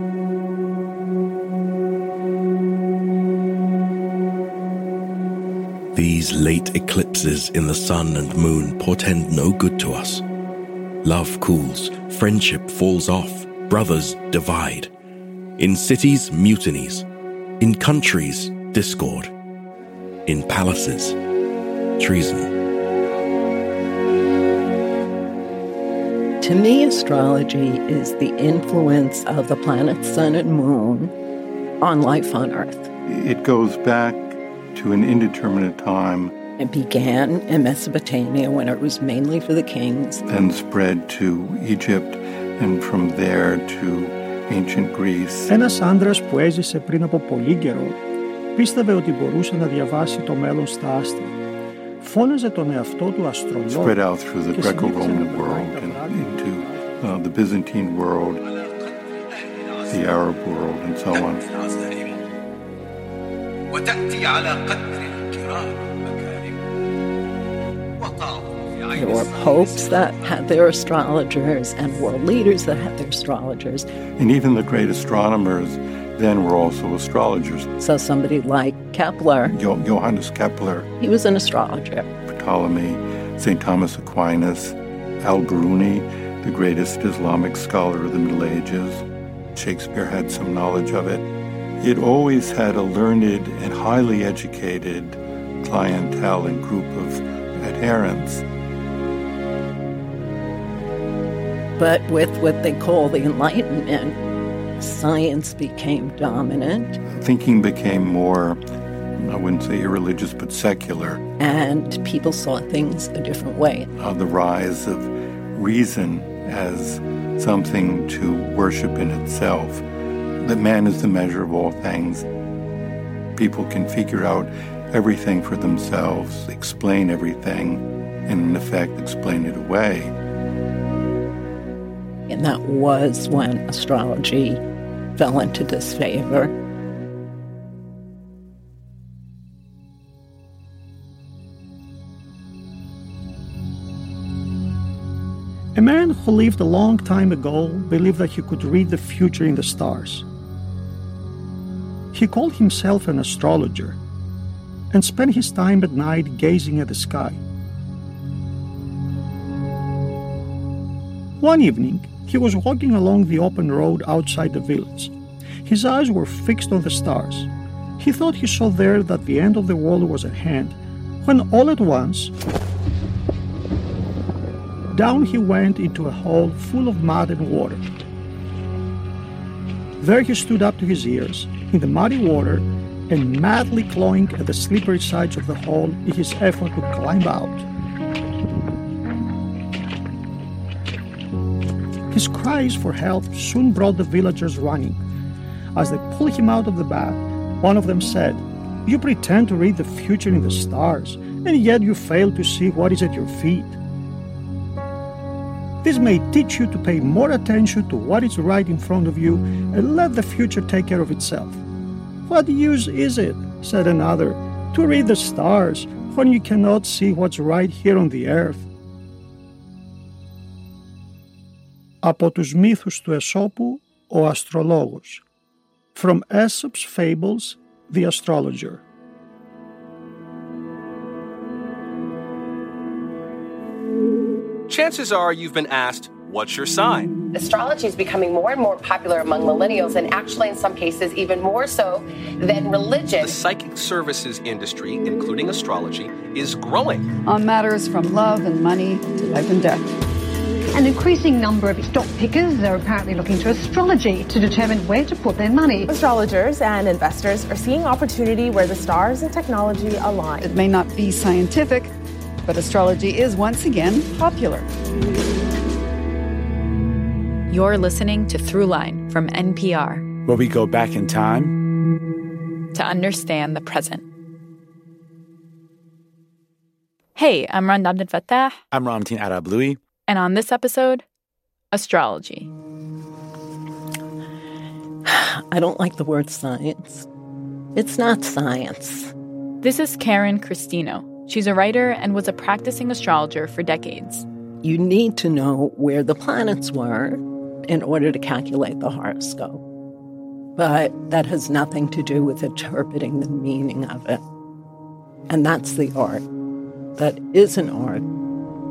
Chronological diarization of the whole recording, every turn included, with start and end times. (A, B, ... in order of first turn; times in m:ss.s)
0:05.9-0:10.2 A
0:11.0-0:14.9 A
0:15.6-0:17.0 A
0:17.6-0:19.3 A
0:20.2-0:21.2 A
0:22.0-0:22.5 A
0:26.4-0:31.1 B
0:31.8-0:32.9 B
0:33.0-0:36.3 C
0:36.6-0:40.2 B
0:40.2-0:45.5 C
0:45.5-0:48.0 D
0:48.6-0:51.3 D
0:52.0-0:54.0 D
0:53.7-0:58.4 C
0:54.5-0:57.1 D
0:59.9-1:01.5 C
1:08.9-1:13.9 B
1:14.2-1:17.7 C
1:17.8-1:19.5 B
1:19.5-1:20.9 C
1:21.0-1:22.1 B
1:22.3-1:29.0 C
1:29.5-1:31.3 C
1:31.8-1:38.4 C
1:41.8-1:44.2 B
1:44.8-1:47.0 B
1:47.1-1:48.6 C
1:49.2-1:51.2 C
1:51.4-1:53.9 B
1:54.0-1:59.8 C
2:00.4-2:02.2 C
2:03.4-2:10.1 C
2:12.3-2:14.6 B
2:15.2-2:16.5 B
2:25.7-2:30.2 D
2:32.1-2:34.0 D
2:34.9-2:37.4 D
2:41.4-2:45.1 D
2:45.6-2:52.3 D
2:54.9-2:57.8 D
3:00.0-3:07.6 D
3:12.1-3:15.0 D
3:15.7-3:23.8 D
3:25.8-3:31.6 D
3:32.2-3:38.6 D
3:42.0-3:45.2 D
3:45.9-3:48.8 D
3:54.7-3:57.2 E
3:57.3-4:03.3 F
4:03.2-4:07.1 E
4:07.2-4:09.9 G
4:10.7-4:15.9 H
4:15.9-4:20.5 I
4:20.4-4:21.9 G
4:22.4-4:24.7 G
4:27.5-4:30.0 J
4:30.2-4:31.5 K
4:32.7-4:34.0 J
4:37.2-4:38.6 J
4:38.7-4:39.8 K
4:40.1-4:41.0 J
4:41.7-4:42.5 J
4:45.0-4:47.1 B
4:47.7-4:49.1 B
4:49.6-4:54.2 J
4:54.6-4:59.6 B
5:00.6-5:04.2 B
5:05.3-5:06.2 B
5:07.0-5:08.0 B